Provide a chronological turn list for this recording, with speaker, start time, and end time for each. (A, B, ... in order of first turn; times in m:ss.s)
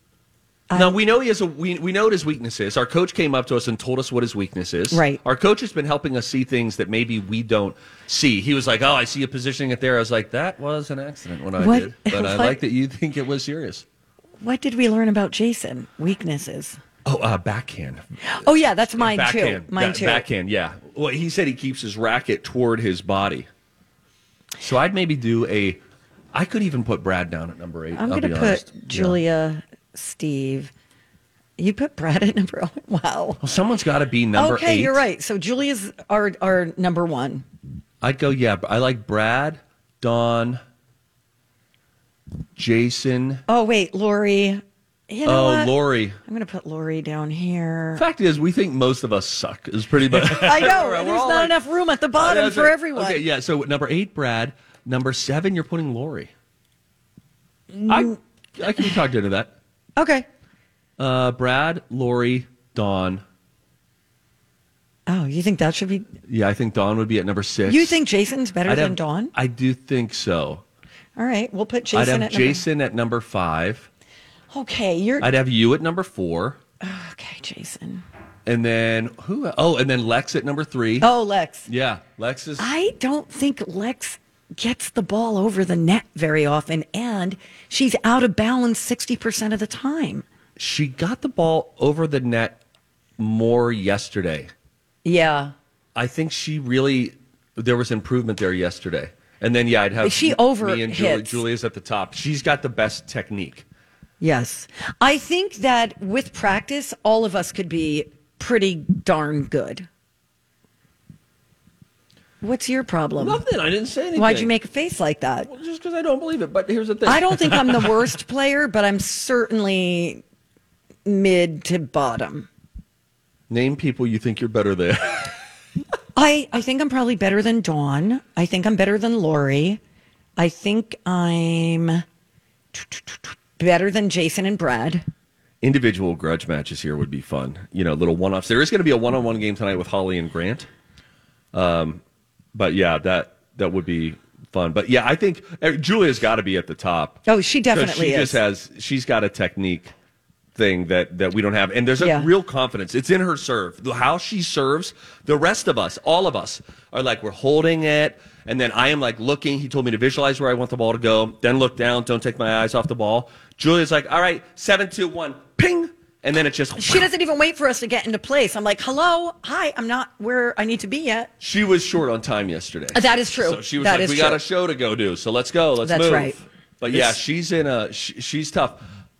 0:00.7-0:01.0 A
0:00.7-0:13.8 B
0:04.9-0:05.2 A
0:11.6-0:12.6 A
0:14.4-0:16.8 A
0:17.0-0:18.0 B
0:18.2-0:20.2 A
0:19.0-0:23.5 B
0:24.6-0:25.8 B
0:26.3-0:29.2 B
0:28.0-0:30.7 A
0:31.6-0:33.4 A
0:33.4-0:35.0 B
0:34.4-0:37.4 A
0:38.0-0:40.6 B
0:42.6-0:43.4 B
0:43.5-0:48.0 A
0:45.2-0:46.2 B
0:48.0-0:51.6 B
0:50.2-0:53.2 A
0:52.2-0:56.3 B
0:57.7-0:58.2 A
0:57.9-0:59.5 B
1:00.0-1:00.2 A
1:01.0-1:03.2 B
1:05.1-1:06.1 A
1:06.3-1:08.0 B
1:07.7-1:09.3 A
1:08.6-1:10.6 B
1:11.2-1:12.6 A
1:11.9-1:13.9 B
1:14.5-1:15.3 A
1:15.2-1:16.6 B
1:16.8-1:18.0 A
1:18.4-1:21.1 B
1:21.0-1:21.7 A
1:21.7-1:22.7 B
1:22.6-1:30.2 A
1:30.6-1:32.6 B
1:33.2-1:34.5 B
1:35.0-1:35.5 A
1:35.9-1:43.6 B
1:40.0-1:41.4 A
1:44.2-1:49.9 A
1:52.4-1:53.4 A
1:53.2-1:54.5 B
1:54.1-1:55.5 A
1:55.5-1:57.9 B
1:57.0-2:00.2 A
2:01.0-2:02.5 A
2:03.5-2:05.3 B
2:06.1-2:09.8 A
2:10.4-2:12.0 A
2:12.7-2:15.0 A
2:15.6-2:20.7 B
2:21.5-2:22.0 B
2:22.5-2:29.9 B
2:27.2-2:28.4 A
2:30.5-2:47.1 B
2:32.0-2:32.3 A
2:46.8-2:51.3 A
2:51.4-2:58.8 B
2:52.9-2:54.4 A
2:55.8-2:56.4 A